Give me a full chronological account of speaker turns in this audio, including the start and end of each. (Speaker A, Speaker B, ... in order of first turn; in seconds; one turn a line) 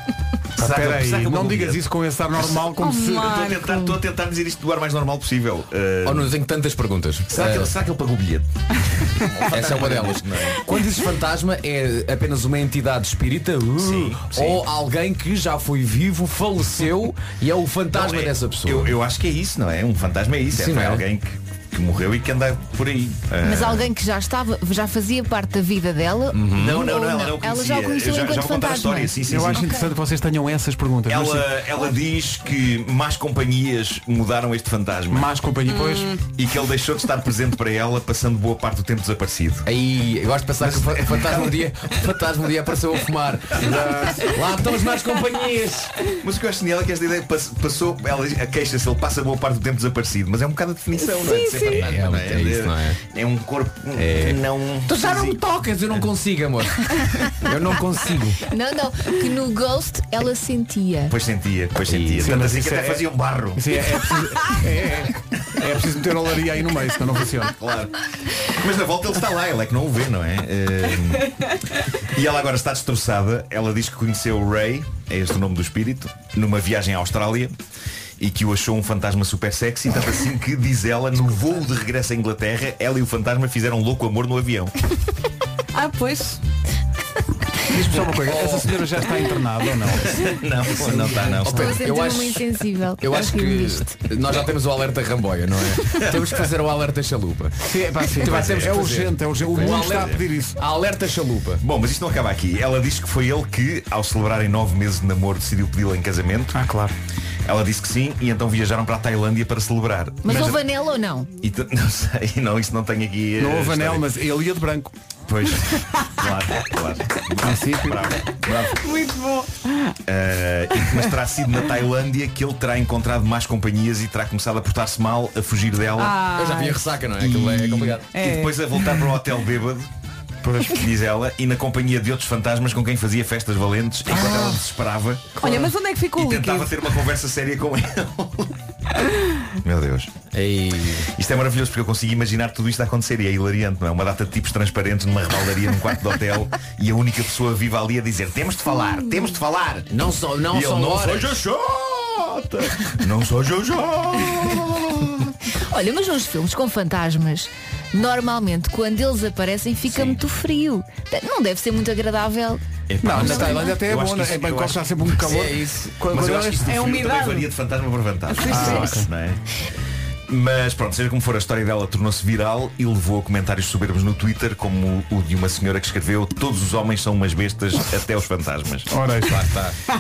Speaker A: 0.6-3.4
Speaker B: 0.6-1.8
Speaker C: 2.8-4.0
Speaker B: 3.2-6.3
Speaker D: 6.0-7.8
Speaker B: 7.3-10.6
Speaker D: 9.5-19.0
Speaker B: 13.8-14.6
Speaker B: 17.9-23.9
Speaker D: 20.5-21.1
Speaker E: 23.4-29.4
Speaker D: 26.3-26.9
Speaker B: 26.5-29.7
Speaker A: 29.3-31.6
Speaker B: 31.1-35.3
Speaker A: 35.1-36.2
Speaker C: 35.7-36.2
Speaker B: 36.4-39.7
Speaker D: 39.6-45.9
Speaker B: 40.6-41.6
Speaker A: 43.6-44.3
Speaker B: 46.2-55.4
Speaker C: 51.0-51.8
Speaker D: 51.5-53.0
Speaker D: 54.0-58.5
Speaker E: 58.5-61.2
Speaker B: 61.1-63.6
Speaker D: 61.9-62.4
Speaker A: 62.2-67.6
Speaker B: 67.6-71.3
Speaker B: 72.1-77.5
Speaker B: 78.2-84.7
Speaker C: 85.7-86.4
Speaker A: 87.7-90.2
Speaker D: 88.2-88.8
Speaker B: 90.1-91.8
Speaker D: 90.8-92.5
Speaker E: 91.5-94.0
Speaker D: 93.0-101.6
Speaker A: 97.6-100.6
Speaker B: 98.3-98.7
Speaker B: 99.6-100.2
Speaker B: 101.6-106.5
Speaker A: 106.5-107.0
Speaker B: 107.5-110.6
Speaker E: 110.2-111.3
Speaker B: 111.4-114.1
Speaker A: 113.4-114.9
Speaker B: 115.3-118.8
Speaker A: 117.4-118.2
Speaker C: 118.7-119.9
Speaker B: 120.1-126.2
Speaker C: 126.0-126.9
Speaker D: 126.2-128.1
Speaker B: 127.2-129.9
Speaker C: 128.1-129.1
Speaker A: 130.4-130.9
Speaker B: 130.7-135.4
Speaker A: 134.1-134.6
Speaker C: 135.4-136.8
Speaker B: 136.2-138.5
Speaker B: 139.6-140.1
Speaker D: 140.3-141.1
Speaker B: 141.1-149.9
Speaker D: 149.9-151.4
Speaker B: 150.5-155.2
Speaker E: 155.7-163.8
Speaker B: 159.9-160.2
Speaker B: 162.9-165.5
Speaker A: 163.0-166.7
Speaker D: 165.2-165.9
Speaker B: 166.1-169.4
Speaker C: 166.6-167.5
Speaker C: 168.3-169.0
Speaker A: 168.5-169.1
Speaker B: 170.3-178.9
Speaker A: 178.9-179.5
Speaker D: 179.3-179.8